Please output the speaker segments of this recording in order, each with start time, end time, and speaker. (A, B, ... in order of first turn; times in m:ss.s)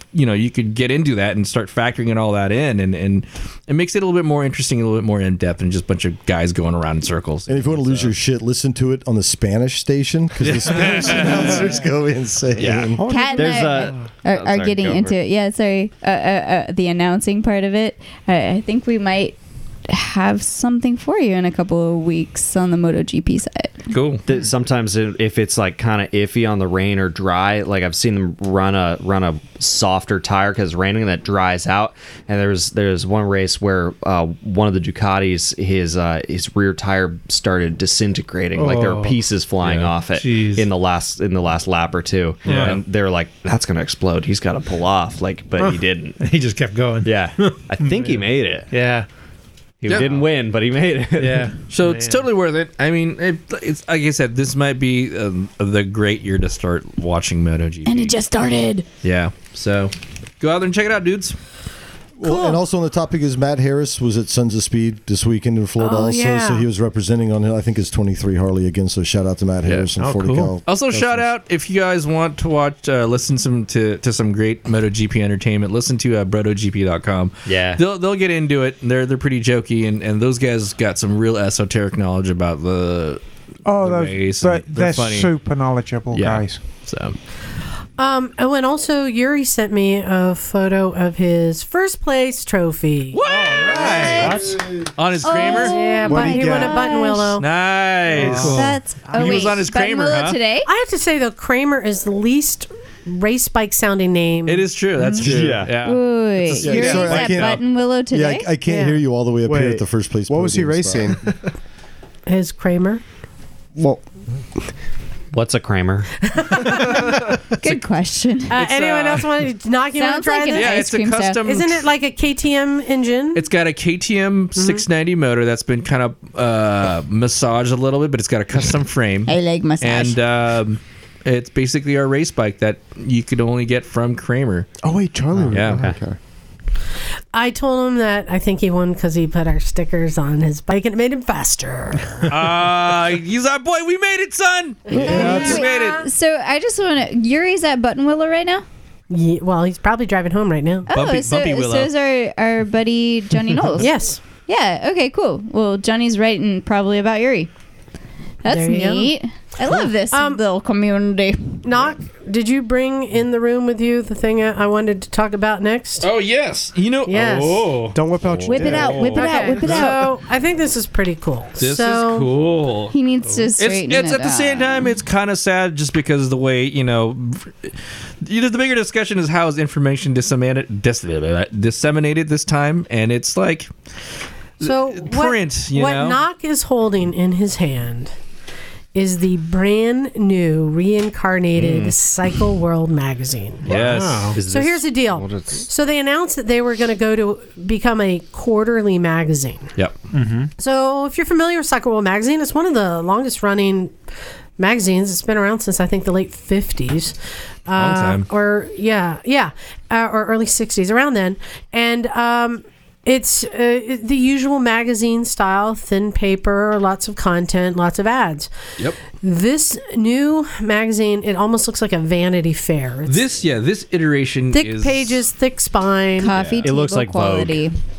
0:00.1-0:08.1 A
0:07.5-0:13.0 B
0:10.4-0:11.7 A
0:12.6-0:15.2 C
0:13.0-0:23.8 D
0:13.1-0:13.7 E
0:23.9-0:24.2 A
0:24.3-0:46.2 C
0:38.6-0:39.2 F
0:39.6-0:39.9 A
0:40.1-0:40.7 F
0:42.4-0:42.8 F
0:42.5-0:42.8 A
0:45.6-0:49.1 F
0:47.0-0:48.7 C
0:49.8-0:51.5 C
0:49.9-0:50.2 F
0:51.2-0:52.3 F
0:51.7-0:58.2 A
0:57.9-0:58.9 D
0:59.0-1:01.4 A
1:02.2-1:11.3 B
1:02.2-1:02.6 G
1:05.8-1:06.7 G
1:10.0-1:10.6 F
1:10.7-1:23.2 A
1:17.5-1:17.8 C
1:23.7-1:26.6 H
1:23.8-1:25.3 A
1:26.1-1:27.2 A
1:28.0-1:33.2 G
1:33.1-1:35.8 A
1:33.4-1:34.6 D
1:33.5-1:34.5 E
1:35.2-1:37.4 D
1:35.6-1:37.4 G
1:36.1-1:36.8 E
1:37.4-1:40.4 A
1:38.2-1:40.7 D
1:38.3-1:38.6 H
1:40.7-1:44.7 G
1:44.5-1:47.6 A
1:45.1-1:48.5 D
1:45.2-1:45.8 C
1:46.6-1:51.2 B
1:48.7-1:51.3 E
1:52.3-1:53.0 G
1:53.8-1:54.0 E
1:55.3-1:56.2 C
1:56.3-1:57.1 G
1:57.6-1:58.6 D
1:58.5-2:00.9 G
1:58.6-1:59.3 A
2:00.0-2:01.4 D
2:00.5-2:01.8 A
2:01.4-2:03.4 G
2:03.4-2:14.7 A
2:04.6-2:04.8 G
2:09.3-2:10.2 D
2:14.8-2:16.2 E
2:15.5-2:15.8 A
2:15.6-2:16.0 C
2:17.3-2:22.1 G
2:22.3-2:26.0 A
2:24.9-2:26.0 G
2:24.9-2:28.6 D
2:29.1-2:30.9 G
2:30.9-2:33.9 D
2:30.9-2:31.9 A
2:33.8-2:34.2 G
2:34.5-2:37.5 D
2:38.4-2:41.6 D
2:38.4-2:39.1 G
2:40.1-2:40.4 G
2:41.6-2:46.1 G
2:46.0-2:49.9 A
2:47.1-2:47.7 G
2:47.9-2:49.2 E
2:48.4-2:50.1 D
2:49.1-2:52.3 G
2:51.6-2:53.0 A
2:52.9-2:55.0 D
2:53.6-3:03.7 A
3:04.6-3:06.2 A
3:04.6-3:08.1 G
3:09.0-3:13.7 G
3:11.6-3:11.9 A
3:13.7-3:14.4 A
3:13.7-3:15.7 C
3:13.7-3:14.4 F
3:14.4-3:19.7 G
3:20.1-3:20.5 F
3:20.6-3:23.9 G
3:24.6-3:27.2 G
3:27.7-3:38.5 G
3:27.8-3:28.2 A
3:39.1-3:43.2 G
3:43.1-3:45.3 A
3:44.5-3:46.3 G
3:46.2-3:47.7 D
3:46.3-3:46.7 A
3:46.6-3:47.6 C